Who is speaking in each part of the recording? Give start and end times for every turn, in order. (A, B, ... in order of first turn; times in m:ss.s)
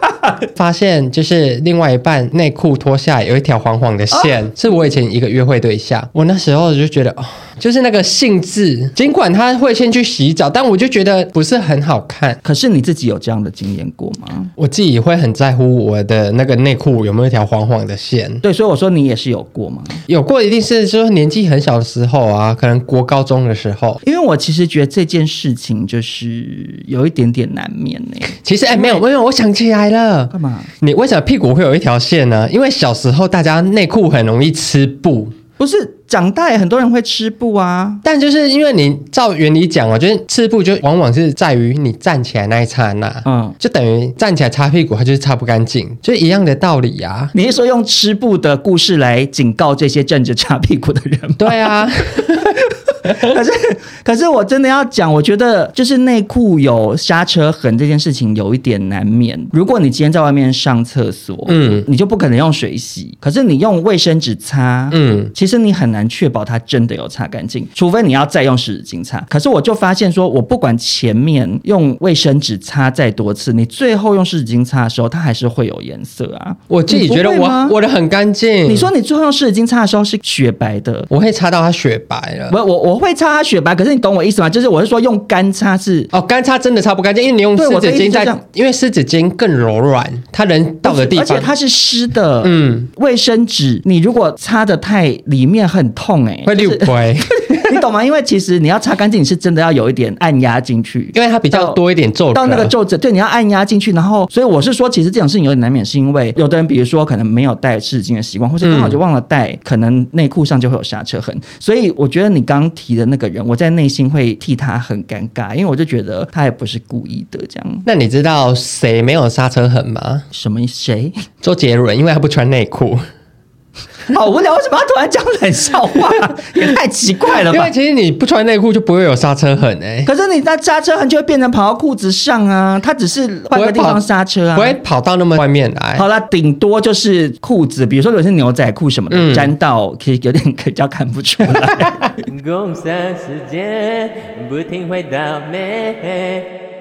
0:00.4-0:12.4 A
0:12.4-0:14.5 B
0:14.6-0:18.4 A
0:18.4-0:20.0 B
0:20.1-0:24.0 A
0:24.0-0:29.0 B
0:28.4-0:35.4 A
0:30.3-0:30.7 B
0:35.6-0:38.0 B
0:38.0-0:47.3 A
0:43.2-0:43.6 B
0:47.3-1:17.8 B
0:51.4-0:53.4 A
1:01.5-1:01.9 A
1:04.9-1:05.3 A
1:16.7-1:18.9 A
1:18.7-1:21.1 B
1:21.1-1:22.6 A
1:22.5-1:26.1 B
1:26.1-1:31.5 A
1:27.6-1:28.4 B
1:30.8-1:41.8 B
1:32.4-1:32.9 A
1:36.5-1:37.8 A
1:41.1-1:42.7 A
1:42.3-1:57.9 B
1:48.6-1:49.0 A
1:57.9-2:00.3 A
2:00.3-2:01.2 B
2:01.4-2:03.0 A
2:04.1-2:07.7 B
2:07.4-2:10.1 A
2:10.1-2:14.8 B
2:13.5-2:14.0 A
2:14.6-2:16.0 A
2:16.0-2:22.1 B
2:19.1-2:19.5 A
2:22.3-2:26.5 C